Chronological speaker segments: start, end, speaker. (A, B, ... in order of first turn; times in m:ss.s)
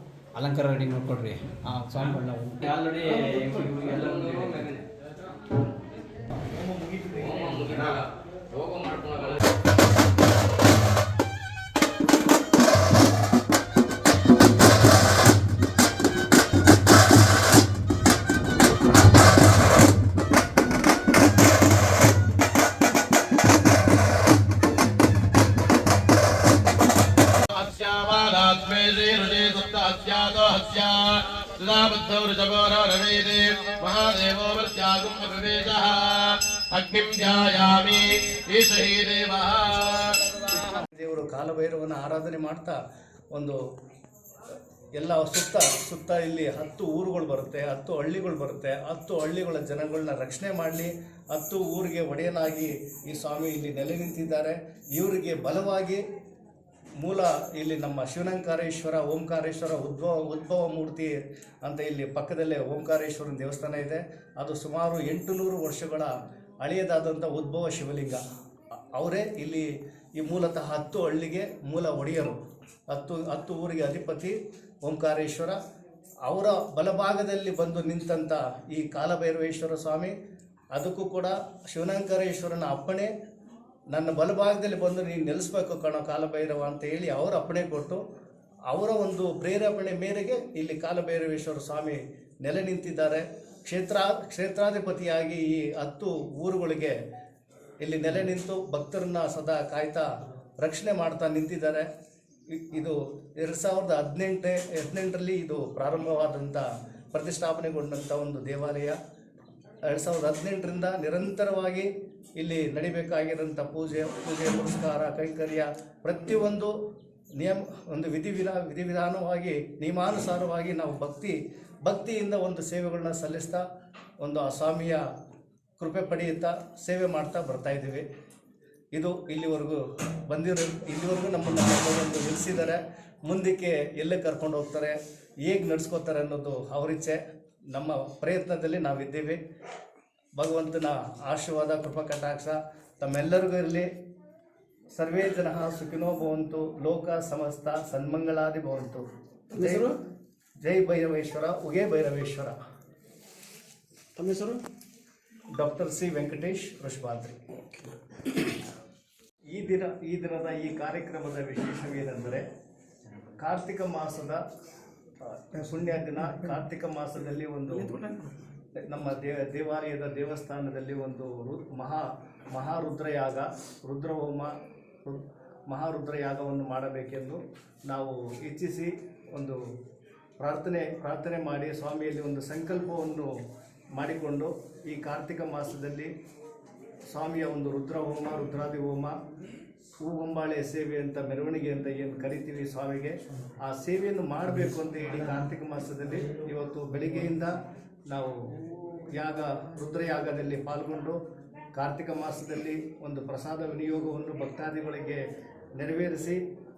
0:00.4-0:04.8 A
0:06.9-0:07.6 A
0:07.2-0:09.4 B
0:27.4-0:40.7 C
0:40.6-0:42.8 D
0:43.3-0:43.6 D
0:45.0-0:56.0 D
0:57.0-1:08.2 D
1:08.9-1:15.6 D
1:16.2-1:20.2 D
1:20.7-1:23.1 D
1:23.9-1:28.0 D
1:28.7-1:37.0 D
1:37.8-1:40.1 D
1:40.6-1:41.9 D
1:42.5-1:49.0 D
1:49.8-1:56.8 D
1:57.4-2:03.6 D
2:04.2-2:05.1 D
2:05.8-2:08.1 D
2:08.9-2:17.2 D
2:17.7-2:19.4 D
2:20.4-2:23.9 D
2:24.9-2:30.0 D
2:30.6-2:32.6 D
2:34.2-2:34.6 B
2:35.5-2:37.4 D
2:39.5-2:42.5 D
2:43.3-2:44.4 D
2:45.2-2:48.2 D
2:48.1-2:48.3 B
2:48.8-2:59.6 D
3:00.4-3:03.3 D
3:04.0-3:06.1 D
3:07.1-3:09.2 D
3:10.0-3:21.2 D
3:21.7-3:25.3 D
3:25.8-3:26.4 D